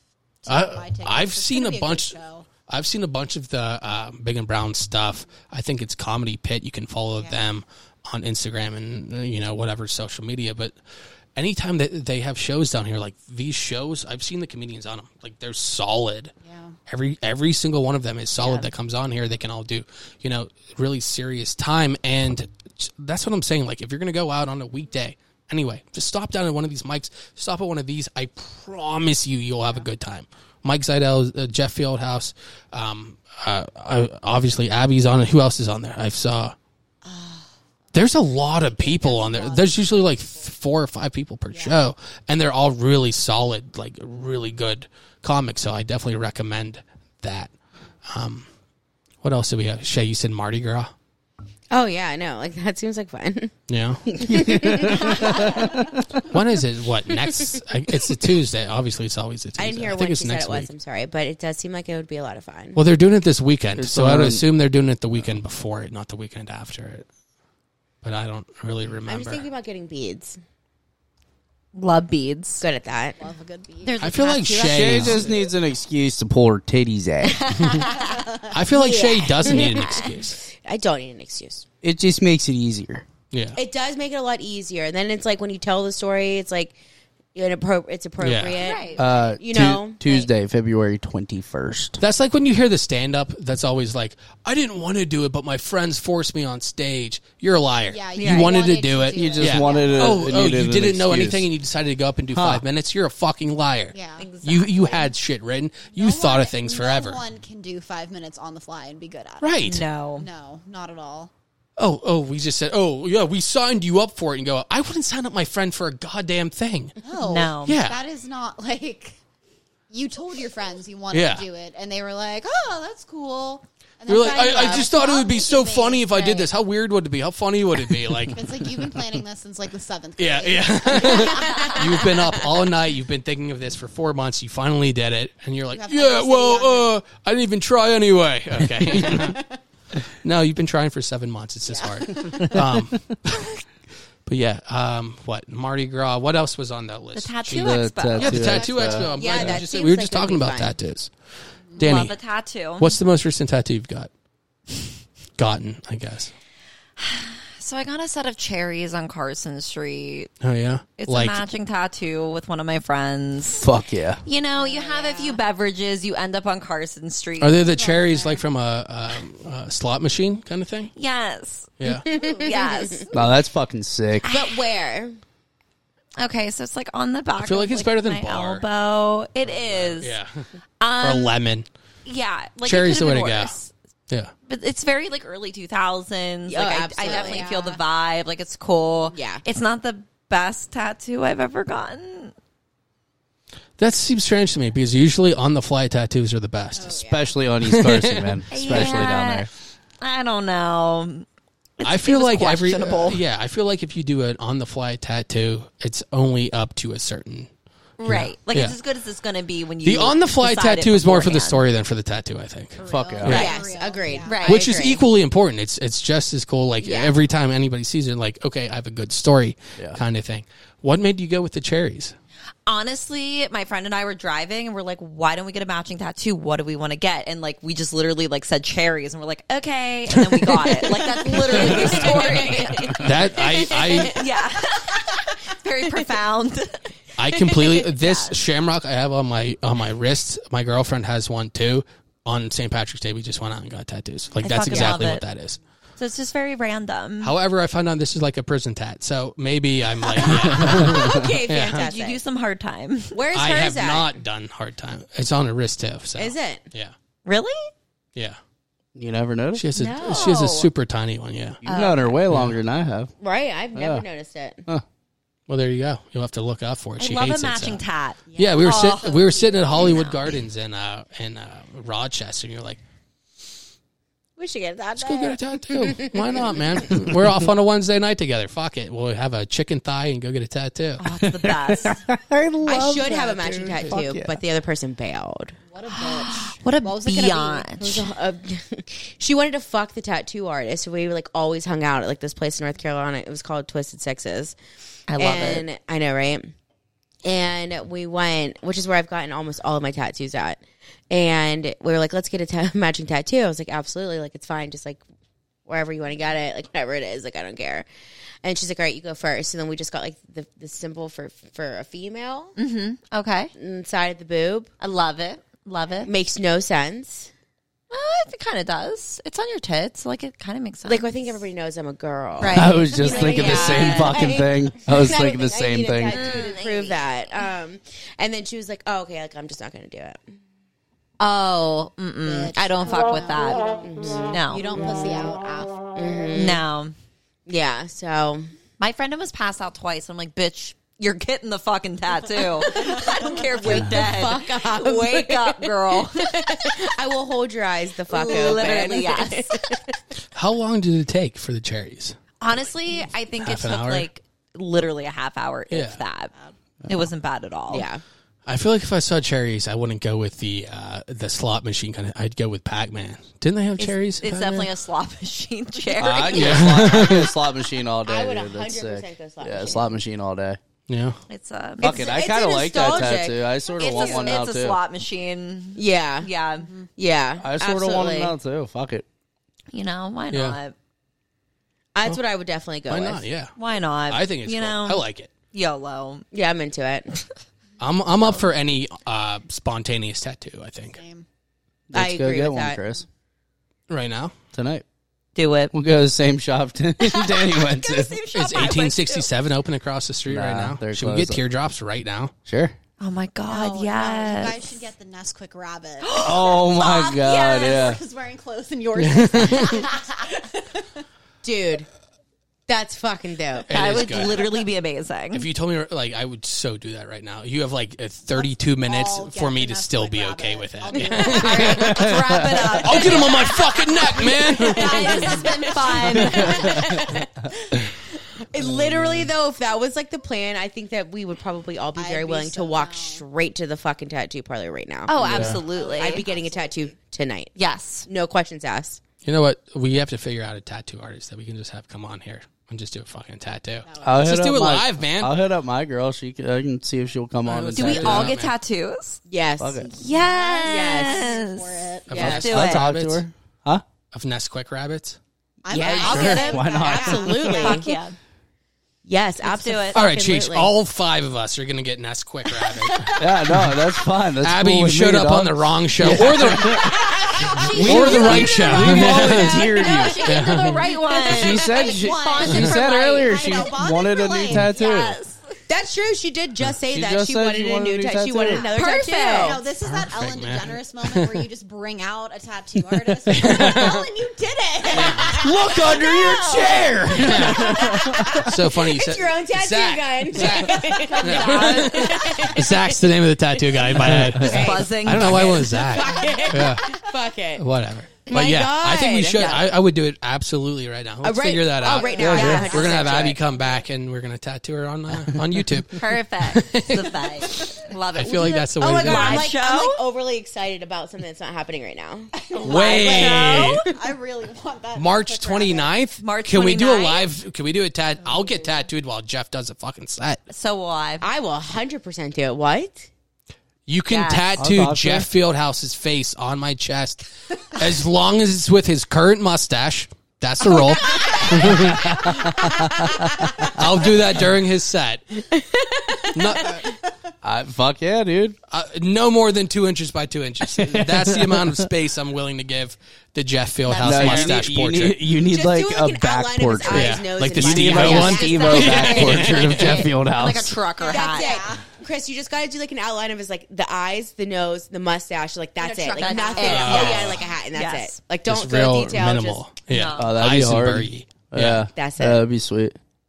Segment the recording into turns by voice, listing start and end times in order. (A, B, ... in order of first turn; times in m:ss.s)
0:00.4-0:02.5 A
0:00.5-0:02.2 B
0:02.7-0:10.8 B
0:07.2-0:07.5 A
0:11.4-0:16.3 B
0:16.4-0:16.8 A
0:16.9-0:36.6 B
0:37.0-0:37.5 A
0:37.9-0:47.5 B
0:38.7-0:40.5 A
0:41.5-0:41.8 A
0:48.1-0:48.5 B
0:49.2-0:50.9 B
0:51.7-0:53.5 C
0:53.7-0:54.4 B
0:54.1-0:55.6 C
0:54.3-0:56.0 D
0:56.2-1:00.7 B
0:59.6-1:02.8 C
1:02.8-1:07.1 B
1:03.8-1:04.4 D
1:08.0-1:09.4 B
1:09.1-1:10.4 C
1:11.8-1:12.6 E
1:12.6-1:13.2 C
1:13.2-1:14.0 A
1:13.8-1:15.3 E
1:14.0-1:15.3 B
1:14.6-1:17.6 D
1:17.3-1:18.2 E
1:18.0-1:18.5 A
1:18.5-1:20.4 B
1:18.7-1:21.7 C
1:19.6-1:20.0 E
1:21.8-1:23.0 D
1:23.3-1:23.6 B
1:23.6-1:26.8 C
1:27.4-1:30.3 C
1:28.2-1:28.6 B
1:28.6-1:29.0 E
1:29.0-1:32.0 D
1:32.0-1:47.2 B
1:37.9-1:40.3 A
1:38.2-1:38.6 E
1:39.2-1:41.5 D
1:42.3-1:42.6 D
1:43.9-1:44.3 A
1:44.2-1:45.1 E
1:45.9-1:49.6 A
1:49.4-1:49.8 B
1:49.6-1:50.3 E
1:50.2-1:51.3 A
1:51.8-1:57.0 B
1:57.0-1:59.2 A
1:57.2-1:57.8 E
1:57.6-1:58.0 B
1:59.9-2:06.5 A
2:01.1-2:01.4 B
2:04.1-2:08.7 B
2:08.3-2:11.8 A
2:10.2-2:19.4 B
2:15.7-2:16.9 A
2:18.8-2:19.2 D
2:19.1-2:19.6 A
2:20.1-2:23.6 B
2:21.7-2:22.6 A
2:24.3-2:31.1 B
2:27.2-2:28.7 E
2:27.5-2:29.6 D
2:28.4-2:29.1 A
2:29.1-2:30.7 C
2:31.8-2:32.2 B
2:31.8-2:33.0 E
2:32.8-2:34.1 B
2:35.4-2:36.3 B
2:37.0-2:40.3 E
2:40.4-2:41.4 B
2:41.0-2:43.7 E
2:43.6-2:44.2 D
2:44.2-2:47.7 E
2:44.6-2:45.4 A
2:47.4-2:50.9 B
2:47.7-2:48.4 A
2:50.9-2:51.8 E
2:51.8-2:52.0 B
2:51.9-2:53.1 C
2:52.1-2:52.4 A
2:52.4-2:53.1 E
2:53.1-2:54.3 D
2:54.2-2:54.6 E
2:54.3-2:55.2 C
2:56.2-3:00.2 E
2:57.4-2:58.6 B
2:59.4-3:00.5 B
3:00.8-3:01.4 E
3:01.0-3:01.7 B
3:02.1-3:03.7 E
3:02.6-3:03.6 B
3:04.5-3:12.3 E
3:06.5-3:07.5 C
3:07.0-3:07.8 A
3:09.1-3:09.4 C
3:13.8-3:17.0 B
3:16.8-3:17.4 A
3:17.0-3:19.5 D
3:17.6-3:19.0 B
3:18.5-3:19.5 E
3:20.0-3:21.3 E
3:21.8-3:23.2 E
3:21.8-3:27.5 B
3:28.0-3:31.6 E
3:28.0-3:28.8 B
3:29.8-3:33.5 B
3:32.8-3:34.5 A
3:32.8-3:33.5 D
3:33.2-3:35.0 C
3:34.2-3:34.7 E
3:34.4-3:42.2 B
3:36.8-3:37.2 C
3:42.7-3:56.9 E
3:51.3-3:52.9 C
3:51.6-3:52.0 D
3:51.6-3:52.4 B
3:53.0-3:54.2 B
3:53.6-3:54.2 C
3:57.2-4:05.6 B
3:57.8-3:58.4 E
4:04.4-4:05.2 E
4:06.0-4:07.4 E
4:07.2-4:11.9 B
4:10.2-4:12.2 C
4:10.5-4:11.0 D
4:11.8-4:13.2 E
4:13.1-4:14.1 C
4:13.3-4:16.9 B
4:16.2-4:16.6 C
4:17.2-4:17.7 E
4:19.0-4:19.7 D
4:19.5-4:21.6 B
4:19.8-4:20.5 C
4:20.0-4:20.7 E
4:21.6-4:22.2 E
4:21.6-4:23.1 D
4:22.3-4:22.6 B
4:23.2-4:24.6 C
4:23.7-4:24.1 D
4:25.5-4:27.8 B
4:27.0-4:30.2 E
4:28.3-4:32.8 B
4:35.0-4:41.0 B
4:35.0-4:36.9 C
4:41.0-4:42.0 E
4:41.2-4:44.4 D
4:42.7-4:45.6 C
4:45.7-4:47.7 A
4:46.0-4:48.1 E
4:47.8-4:54.6 C
4:55.1-4:55.7 E
4:55.2-4:56.5 C
4:57.2-5:05.0 C
5:05.7-5:07.9 C
5:08.4-5:12.6 C
5:12.6-5:13.5 E
5:13.6-5:14.7 C
5:14.8-5:16.1 E
5:16.0-5:17.3 C
5:17.9-5:21.4 E
5:20.8-5:30.2 C
5:22.4-5:24.3 E
5:22.5-5:26.4 D
5:26.0-5:27.1 E
5:31.2-5:33.8 E
5:32.2-5:33.5 A
5:33.8-5:34.3 C
5:34.3-5:34.6 E
5:34.5-5:35.8 A
5:36.0-5:36.6 C
5:36.3-5:36.9 E
5:37.5-5:38.5 C
5:38.8-5:46.7 E
5:42.8-5:43.4 A
5:42.8-5:50.0 C
5:48.1-5:49.6 E
5:50.4-5:52.2 B
5:52.4-5:56.3 E
5:53.4-5:54.1 B
5:55.7-5:56.0 B
5:56.9-5:57.9 E
5:57.7-5:58.0 C
5:58.5-6:04.3 B
6:03.8-6:07.0 E
6:04.3-6:04.7 C
6:06.0-6:10.6 D
6:06.3-6:07.3 B
6:08.0-6:09.9 C
6:10.9-6:11.2 B
6:11.3-6:12.2 E
6:11.8-6:14.8 D
6:11.8-6:14.1 C
6:13.8-6:16.7 E
6:13.9-6:14.3 A
6:15.8-6:16.3 C
6:16.6-6:16.9 A
6:17.0-6:18.3 C
6:17.4-6:19.0 D
6:19.7-6:20.7 E
6:20.3-6:20.6 B
6:22.0-6:23.2 C
6:22.9-6:23.5 B
6:23.6-6:26.3 E
6:24.1-6:25.3 B
6:26.3-6:27.2 C
6:27.8-6:31.0 B
6:31.0-6:31.2 A
6:31.9-6:33.0 D
6:31.9-6:32.8 C
6:33.9-6:34.3 B
6:34.5-6:34.8 D
6:35.4-6:35.7 E
6:35.7-6:38.2 D
6:37.0-6:39.3 E
6:38.3-6:42.3 B
6:40.3-6:41.4 D
6:42.5-6:42.8 D
6:43.0-6:44.8 E
6:43.5-6:46.2 A
6:46.0-6:47.9 E
6:46.2-6:48.0 D
6:47.6-6:50.8 A
6:49.0-6:49.8 B
6:51.4-6:51.9 C
6:52.7-6:53.7 C
6:53.7-6:54.4 B
6:53.7-6:55.5 E
6:55.3-7:02.0 B
6:58.4-7:07.0 A
7:01.4-7:03.6 E
7:01.6-7:02.6 D
7:02.8-7:05.1 B
7:04.2-7:07.3 C
7:04.7-7:06.8 E
7:08.5-7:19.0 C
7:08.6-7:09.3 D
7:12.0-7:13.2 A
7:15.1-7:16.3 E
7:15.3-7:15.6 B
7:15.5-7:16.9 A
7:17.6-7:18.1 E
7:19.2-7:25.4 B
7:23.8-7:24.4 A
7:24.0-7:28.4 D
7:27.5-7:28.5 B
7:27.8-7:29.2 E
7:29.3-7:29.9 C
7:29.6-7:29.9 D
7:29.9-7:32.9 E
7:30.0-7:32.2 A
7:30.6-7:31.2 C
7:32.1-7:33.2 B
7:32.1-7:32.5 C
7:32.2-7:33.8 D
7:34.1-7:35.2 B
7:35.6-7:37.9 A
7:35.7-7:37.9 C
7:35.8-7:37.5 D
7:37.4-7:38.2 E
7:39.0-7:40.7 C
7:39.4-7:40.0 E
7:39.9-7:43.8 B
7:43.2-7:46.9 D
7:44.4-7:47.0 B
7:47.5-7:53.6 E
7:47.7-7:50.2 D
7:47.8-7:49.6 B
7:49.8-7:54.7 A
7:50.3-7:50.8 B
7:51.3-7:55.2 D
7:54.5-7:55.4 E
7:55.7-7:59.6 C
7:56.9-7:58.7 D
7:58.5-7:59.6 E
7:59.4-8:04.1 A
7:59.8-8:01.4 B
8:03.3-8:04.1 B
8:03.6-8:17.6 C
8:04.8-8:05.3 A
8:04.9-8:05.4 B
8:05.4-8:08.5 D
8:07.2-8:07.8 B
8:08.5-8:16.8 B
8:11.0-8:12.5 E
8:14.0-8:14.7 D
8:14.5-8:15.6 E
8:17.6-8:29.5 B
8:18.3-8:19.6 C
8:19.4-8:19.7 E
8:21.2-8:23.4 C
8:21.9-8:22.9 A
8:22.1-8:23.0 E
8:22.2-8:22.7 D
8:26.0-8:30.0 E
8:28.5-8:33.8 C
8:32.3-8:35.9 A
8:32.6-8:33.8 B
8:33.1-8:33.7 E
8:35.0-8:40.4 B
8:36.2-8:37.3 E
8:40.5-8:41.3 E
8:41.2-8:43.1 C
8:43.9-8:52.4 B
8:44.1-8:44.6 E
8:44.6-8:45.3 D
8:51.6-8:53.2 D
8:52.8-8:53.7 C
8:53.8-8:55.2 B
8:53.8-8:54.0 D
8:55.5-8:56.9 C
8:56.4-8:56.9 B
8:57.4-8:58.6 D
8:58.7-9:05.2 B
9:00.8-9:01.9 D
9:03.9-9:04.6 E
9:04.0-9:10.8 D
9:05.4-9:09.6 C
9:06.9-9:10.1 B
9:08.0-9:11.6 E
9:11.0-9:11.9 A
9:11.0-9:19.7 C
9:15.8-9:17.3 A
9:16.0-9:18.2 E
9:16.6-9:17.4 B
9:18.5-9:21.9 B
9:19.9-9:20.4 E
9:20.2-9:23.0 D
9:22.0-9:22.4 C